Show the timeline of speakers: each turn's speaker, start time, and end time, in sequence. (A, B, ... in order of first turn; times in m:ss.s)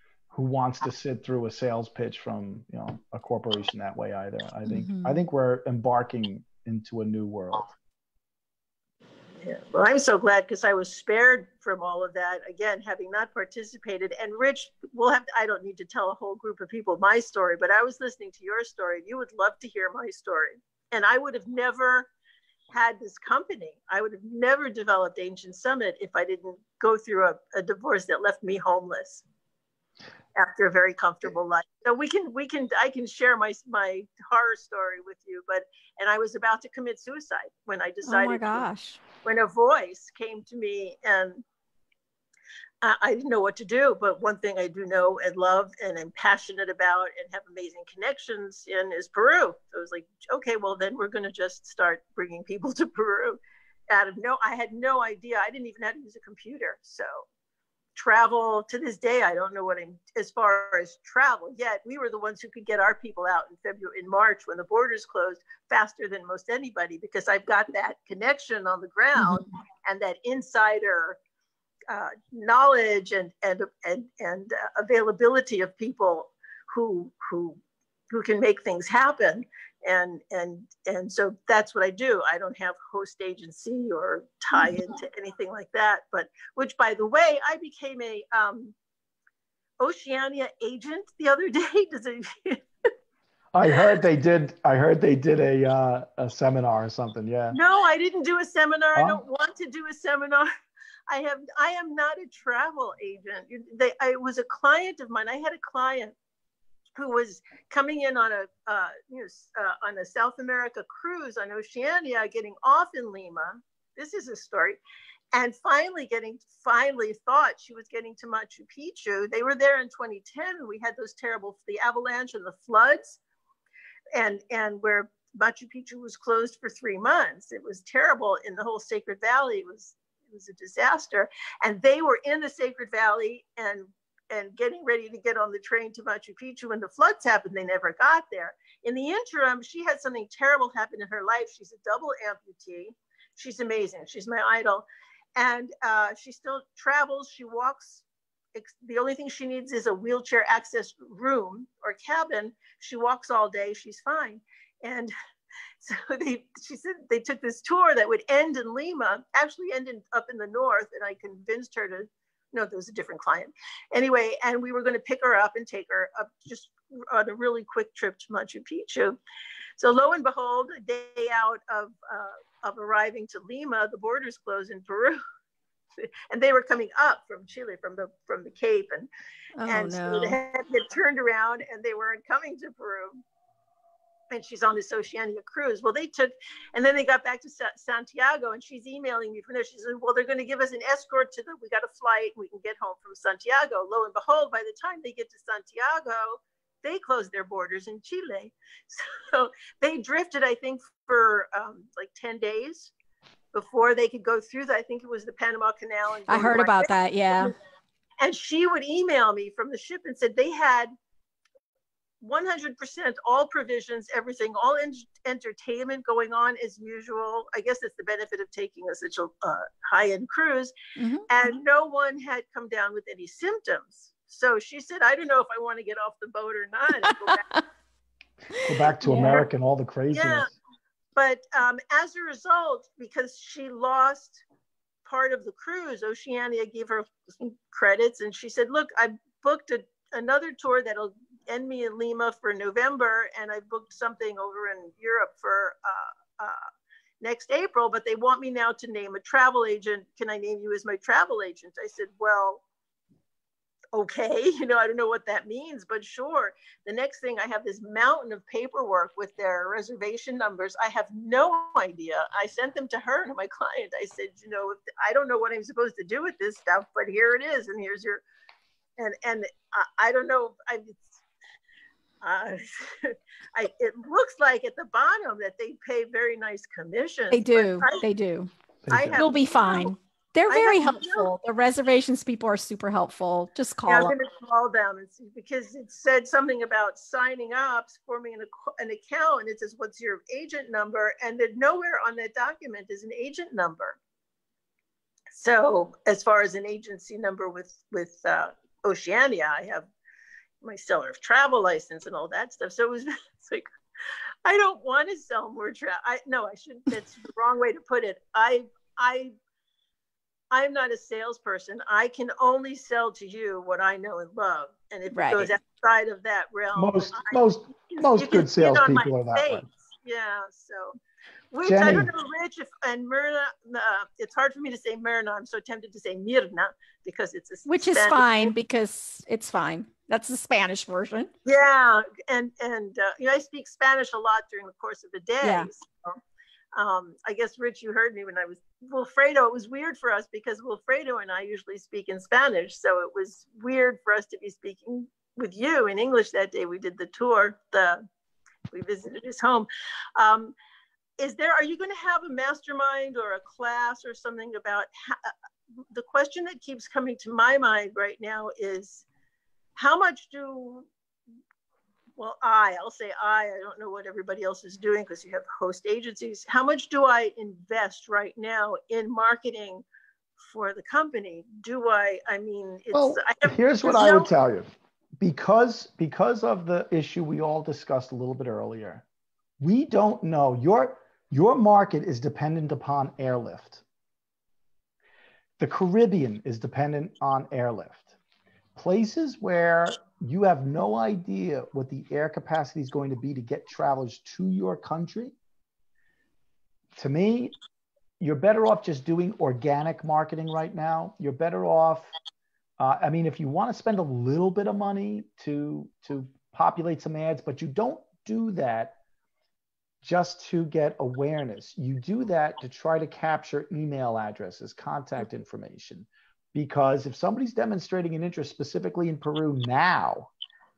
0:00.3-0:07.7 A
0:04.6-0:05.2 B
0:09.4-0:22.1 C
0:22.7-0:29.2 C
0:30.4-0:38.7 C
0:38.0-0:39.0 B
0:39.2-0:41.4 C
0:42.8-0:57.2 C
0:58.0-1:11.2 C
1:09.2-1:09.5 B
1:11.9-1:17.6 C
1:18.1-1:28.7 C
1:24.6-1:24.8 B
1:29.8-1:32.6 C
1:33.5-1:37.6 A
1:37.5-1:40.5 C
1:39.0-1:39.2 A
1:41.1-1:46.2 C
1:47.0-1:54.8 C
1:55.3-2:03.2 C
2:04.2-2:28.0 C
2:28.6-2:35.1 C
2:35.8-2:49.2 C
2:49.8-2:55.2 C
2:56.3-2:59.1 C
2:59.6-3:00.4 B
2:59.7-3:03.2 C
3:04.3-3:22.9 C
3:23.5-3:27.5 C
3:26.3-3:27.5 B
3:28.2-3:30.9 C
3:32.2-3:40.7 C
3:41.0-3:41.3 B
3:41.3-3:47.4 C
3:47.0-3:47.6 B
3:48.6-3:49.4 B
3:48.6-3:50.5 A
3:50.1-3:50.5 C
3:51.2-3:54.4 C
3:55.0-4:06.6 C
4:07.2-4:12.6 C
4:13.9-4:28.2 C
4:29.0-4:31.1 C
4:32.2-4:38.0 C
4:37.3-4:38.5 B
4:38.8-4:39.2 A
4:38.9-4:39.9 C
4:39.2-4:44.1 B
4:40.5-4:41.3 C
4:43.9-4:54.0 C
4:55.3-4:59.9 C
5:00.6-5:03.6 C
5:04.4-5:09.3 C
5:10.5-5:21.0 C
5:15.1-5:15.5 B
5:16.8-5:19.7 A
5:21.5-5:28.5 C
5:21.6-5:22.1 A
5:27.7-5:31.3 B
5:31.5-5:36.2 C
5:35.4-5:35.7 B
5:36.8-5:48.0 C
5:48.7-5:50.5 C
5:51.2-5:55.3 C
5:55.9-5:59.0 C
5:59.8-6:00.9 C
6:02.2-6:09.8 C
6:10.5-6:14.3 C
6:12.9-6:14.7 A
6:15.2-6:19.0 A
6:19.6-6:23.8 A
6:25.6-6:28.2 A
6:28.8-6:35.4 A
6:37.0-6:37.6 A
6:38.2-6:42.1 A
6:42.8-6:49.0 A
6:50.0-7:00.3 A